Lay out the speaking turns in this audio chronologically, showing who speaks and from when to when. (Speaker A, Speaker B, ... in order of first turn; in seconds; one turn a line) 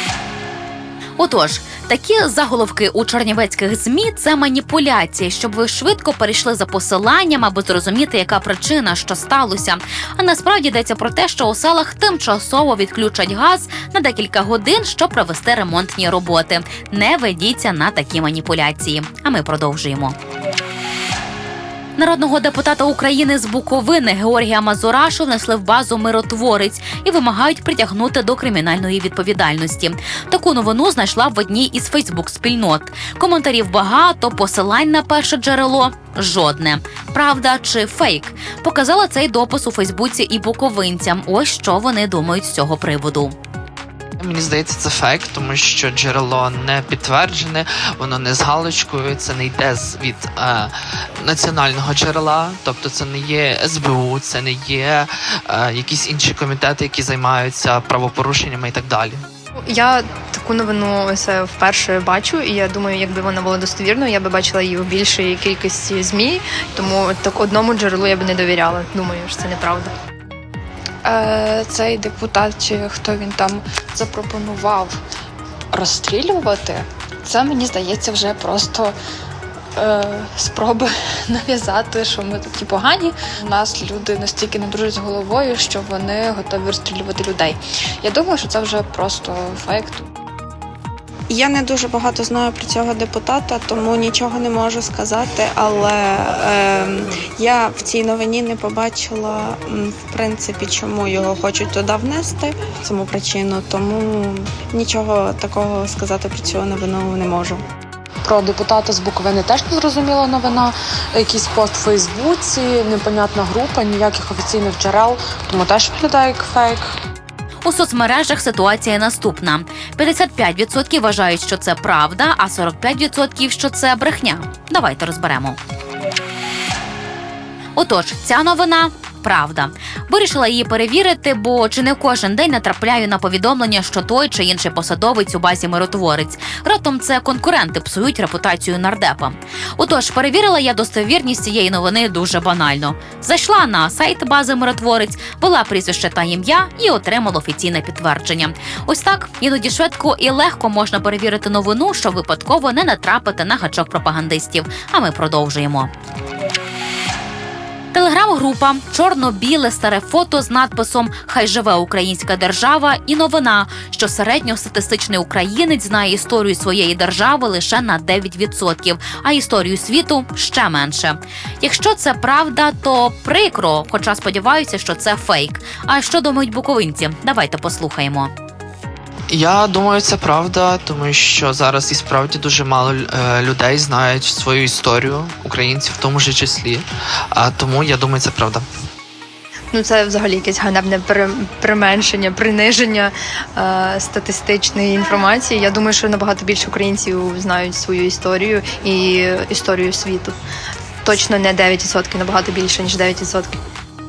Speaker A: 1.2-20.2
Speaker A: 22.0-43.4
Speaker B: 44.2-59.2
Speaker C: 59.6-69.9
Speaker D: 71.1-74.9
Speaker D: 75.8-78.9
Speaker D: 79.8-87.5
Speaker D: 88.0-90.0
Speaker E: 91.3-107.6
Speaker F: 108.2-116.9
Speaker A: 117.6-125.6
Speaker A: 127.8-155.9
Speaker A: 157.9-178.3
Speaker B: 179.3-188.6
Speaker C: 189.7-200.3
Speaker C: 201.0-203.6